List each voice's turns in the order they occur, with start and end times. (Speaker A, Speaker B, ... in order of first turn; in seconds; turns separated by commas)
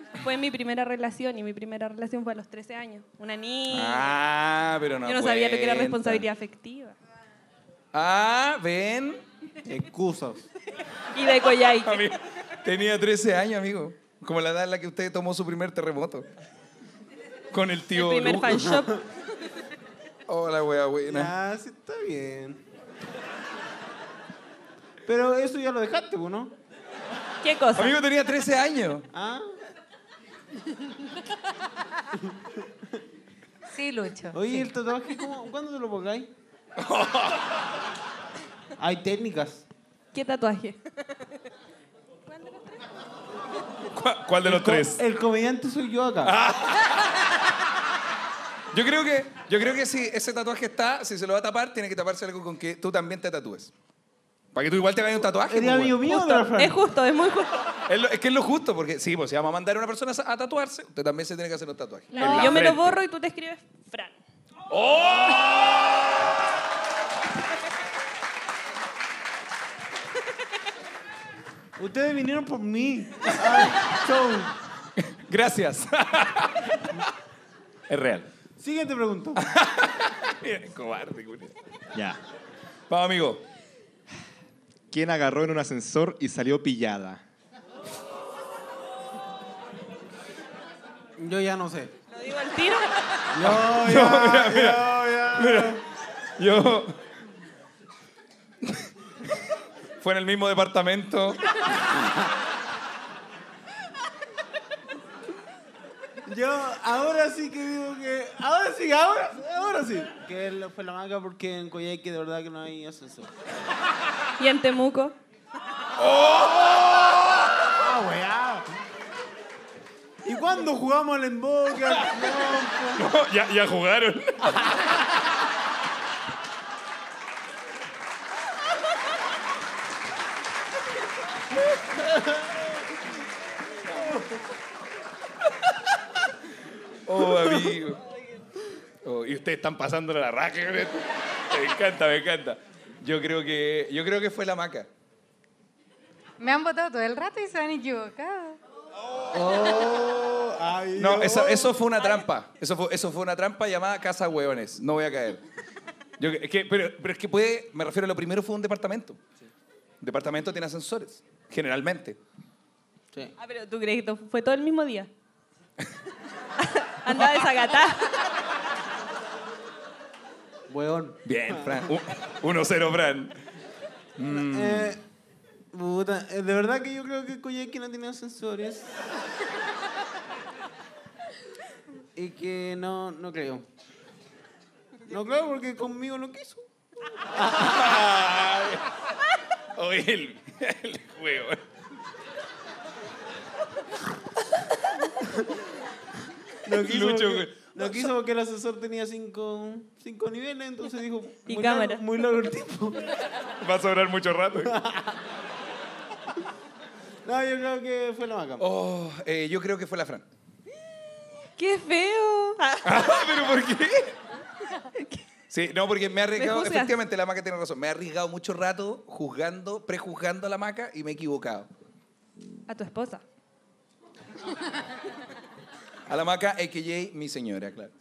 Speaker A: 0.2-4.1, Speaker B: 3.7-6.2, Speaker A: 5.0-7.0, Speaker B: 7.9-9.2, Speaker C: 9.7-10.4, Speaker A: 11.1-12.1, Speaker B: 11.8-16.3, Speaker B: 17.5-18.7, Speaker A: 17.9-19.1, Speaker B: 20.3-21.3, Speaker C: 21.1-22.6, Speaker C: 25.1-26.5, Speaker A: 27.4-27.9, Speaker B: 27.8-29.1, Speaker C: 29.1-29.6, Speaker D: 33.7-34.7, Speaker C: 34.3-36.3, Speaker B: 36.8-37.6, Speaker C: 38.8-39.6, Speaker A: 40.1-41.2, Speaker A: 42.3-42.9, Speaker B: 43.9-45.0, Speaker C: 44.4-46.3, Speaker B: 46.2-47.0, Speaker B: 48.7-53.7, Speaker B: 54.5-56.0, Speaker C: 55.5-56.8, Speaker A: 56.0-57.8, Speaker B: 57.9-63.0, Speaker A: 62.1-64.2, Speaker C: 62.2-62.5, Speaker B: 64.7-66.1, Speaker C: 71.8-74.5, Speaker B: 75.0-76.9, Speaker B: 77.9-78.3, Speaker C: 78.6-79.4, Speaker B: 79.3-81.5, Speaker E: 81.9-82.2, Speaker B: 82.9-83.4, Speaker E: 84.9-87.2, Speaker C: 91.2-91.9, Speaker A: 92.1-93.3, Speaker C: 93.3-95.8, Speaker B: 93.4-95.8, Speaker B: 96.4-97.0, Speaker B: 100.0-101.6, Speaker C: 106.3-113.3, Speaker A: 114.4-115.2, Speaker B: 116.0-117.6, Speaker C: 117.7-118.7, Speaker C: 120.2-123.0, Speaker B: 122.9-125.0, Speaker B: 137.1-138.0, Speaker B: 139.0-144.9, Speaker D: 146.4-148.6, Speaker C: 149.3-151.7, Speaker B: 150.9-155.4, Speaker B: 156.2-159.2, Speaker B: 160.0-162.2, Speaker A: 163.4-165.1, Speaker A: 166.6-168.3, Speaker C: 170.7-171.8, Speaker B: 171.2-173.3, Speaker B: 174.2-175.0, Speaker C: 174.3-175.0, Speaker C: 175.7-179.0, Speaker C: 182.1-183.7, Speaker C: 185.1-186.7, Speaker B: 187.5-188.9, Speaker B: 189.8-191.6, Speaker C: 196.6-203.1, Speaker B: 196.7-198.1, Speaker A: 201.5-202.0, Speaker B: 203.6-204.7, Speaker C: 204.7-205.2, Speaker C: 207.2-208.7, Speaker B: 208.6-210.2, Speaker A: 211.6-213.1, Speaker B: 212.8-214.2, Speaker A: 214.9-215.2, Speaker B: 215.5-221.7, Speaker A: 216.3-216.9, Speaker A: 222.7-223.2, Speaker B: 226.1-227.9